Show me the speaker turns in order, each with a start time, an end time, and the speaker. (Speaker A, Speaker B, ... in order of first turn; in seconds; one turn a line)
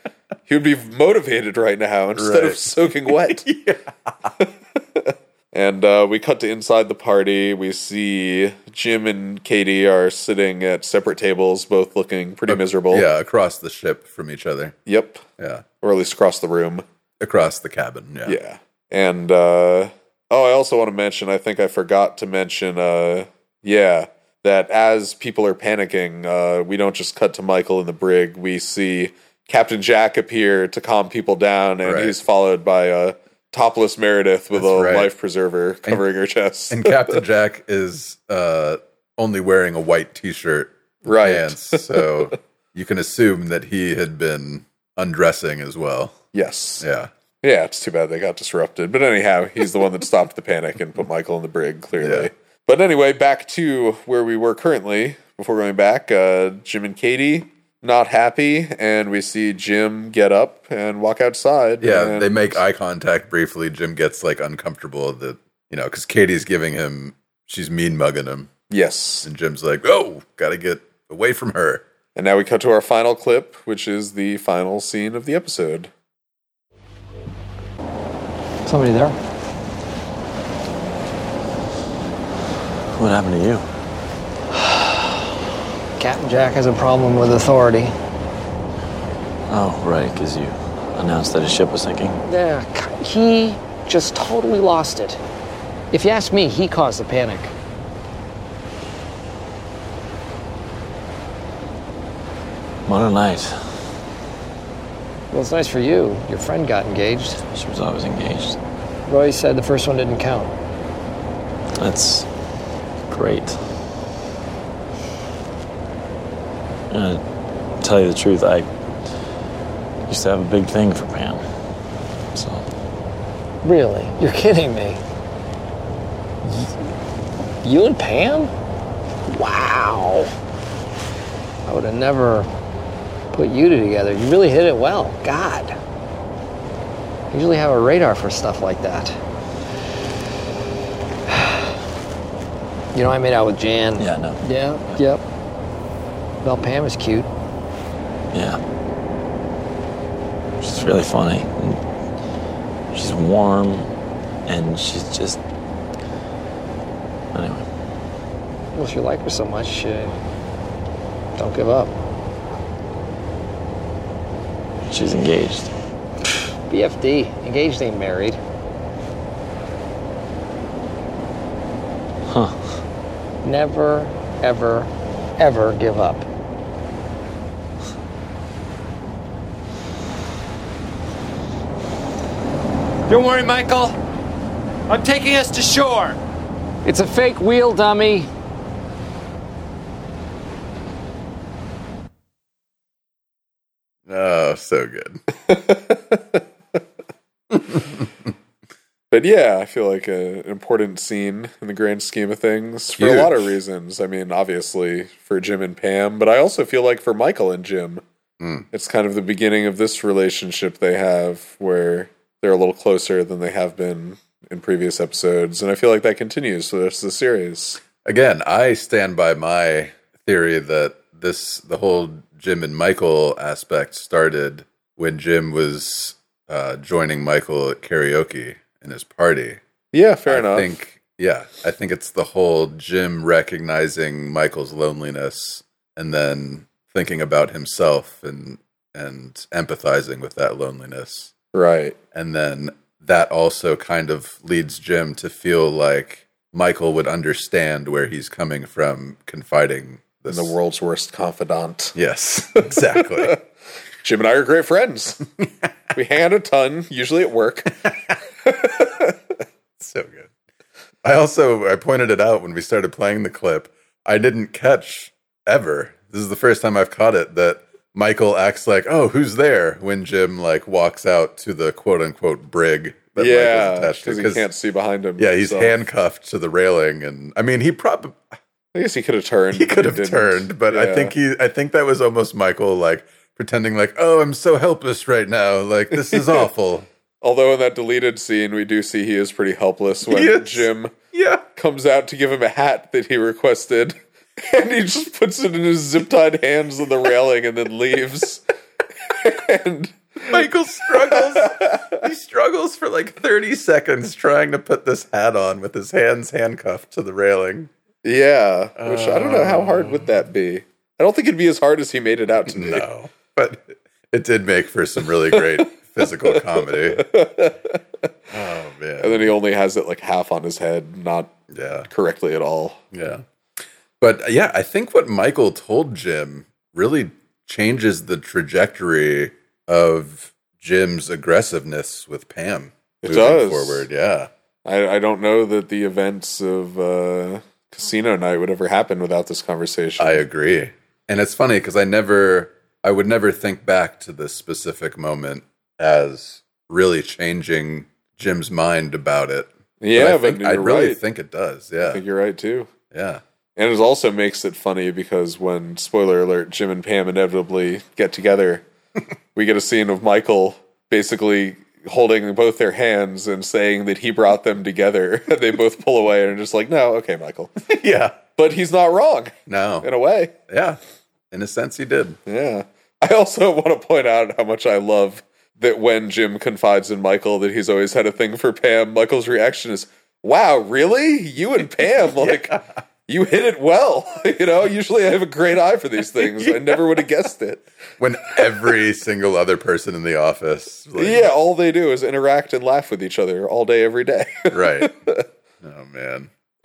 Speaker A: 0.5-3.4
Speaker B: 2.1-4.3
Speaker A: 4.4-13.1
Speaker B: 12.5-14.8
Speaker A: 14.8-15.2
Speaker B: 15.4-15.6
Speaker A: 15.8-16.8
Speaker B: 17.2-18.4
Speaker A: 18.2-37.2
Speaker B: 31.8-32.2
Speaker B: 34.5-35.1
Speaker B: 36.7-46.2
Speaker A: 41.0-42.1
Speaker A: 46.3-46.9
Speaker B: 46.8-47.1
Speaker A: 47.4-62.6
Speaker B: 52.0-52.3
Speaker B: 61.8-68.5
Speaker A: 68.7-69.3
Speaker B: 69.2-71.8
Speaker A: 72.1-75.9
Speaker C: 78.7-79.2
Speaker D: 82.9-83.7
Speaker C: 84.5-85.3
Speaker C: 86.0-87.9
Speaker D: 89.5-92.2
Speaker C: 92.2-95.2
Speaker C: 95.9-97.5
Speaker D: 102.9-103.5
Speaker C: 105.3-107.4
Speaker D: 107.5-108.6
Speaker C: 109.1-110.5
Speaker D: 111.8-112.3
Speaker D: 113.1-113.6
Speaker D: 116.9-117.2
Speaker D: 117.8-118.7
Speaker D: 120.1-121.4
Speaker D: 122.3-122.6
Speaker C: 123.6-125.0
Speaker C: 126.4-126.7
Speaker C: 127.6-128.5
Speaker C: 129.3-130.3
Speaker C: 131.7-132.5
Speaker C: 133.3-135.8
Speaker C: 137.3-139.2
Speaker C: 141.3-141.6
Speaker C: 142.9-145.2
Speaker D: 144.0-145.0
Speaker C: 146.4-147.3
Speaker D: 148.3-148.6
Speaker D: 150.6-151.8
Speaker D: 152.9-153.9
Speaker D: 154.5-155.4
Speaker D: 157.3-157.7
Speaker C: 158.7-160.2
Speaker C: 161.3-161.9
Speaker D: 164.9-165.7
Speaker C: 166.7-168.4
Speaker D: 172.3-172.6
Speaker C: 173.4-176.3
Speaker E: 183.1-183.9
Speaker E: 184.9-186.2
Speaker C: 186.8-188.3
Speaker B: 194.1-195.2
Speaker A: 195.5-196.4
Speaker B: 197.7-198.1
Speaker A: 199.1-208.0
Speaker B: 202.9-203.5
Speaker B: 208.4-208.7
Speaker A: 208.7-217.8
Speaker B: 218.0-229.6
Speaker A: 229.9-230.7
Speaker B: 230.3-241.3
Speaker A: 241.5-241.9
Speaker B: 242.1-250.5
Speaker A: 250.3-251.9
Speaker B: 251.9-253.3
Speaker A: 252.7-253.4
Speaker A: 254.0-255.2
Speaker A: 255.9-257.8
Speaker A: 258.4-259.2
Speaker B: 259.8-260.3
Speaker B: 261.0-274.4
Speaker A: 273.2-275.8
Speaker B: 275.2-278.2
Speaker A: 278.7-281.1
Speaker B: 279.5-286.9
Speaker A: 286.0-286.4
Speaker A: 287.2-290.9
Speaker B: 290.1-291.4
Speaker A: 291.6-298.4
Speaker A: 299.1-300.4
Speaker B: 300.3-307.7
Speaker A: 300.9-302.1
Speaker A: 308.0-312.9
Speaker B: 308.8-310.0
Speaker B: 312.5-317.1
Speaker A: 315.3-317.8
Speaker B: 318.3-319.3
Speaker A: 319.0-321.3
Speaker B: 321.5-321.9
Speaker A: 321.9-322.8
Speaker B: 322.9-323.2
Speaker B: 324.0-334.3
Speaker A: 333.0-333.9
Speaker A: 334.6-340.2
Speaker B: 340.0-352.0
Speaker A: 349.8-351.0
Speaker A: 351.8-352.7
Speaker B: 352.9-353.2
Speaker A: 353.6-358.6
Speaker A: 359.3-367.5
Speaker B: 367.7-368.2
Speaker A: 368.4-370.3
Speaker B: 369.5-369.9
Speaker B: 370.5-370.8
Speaker B: 371.3-372.2
Speaker A: 372.3-387.6
Speaker B: 382.2-382.6
Speaker B: 386.2-386.8
Speaker B: 388.0-391.3
Speaker A: 390.9-395.2
Speaker B: 394.5-395.0
Speaker B: 395.6-396.3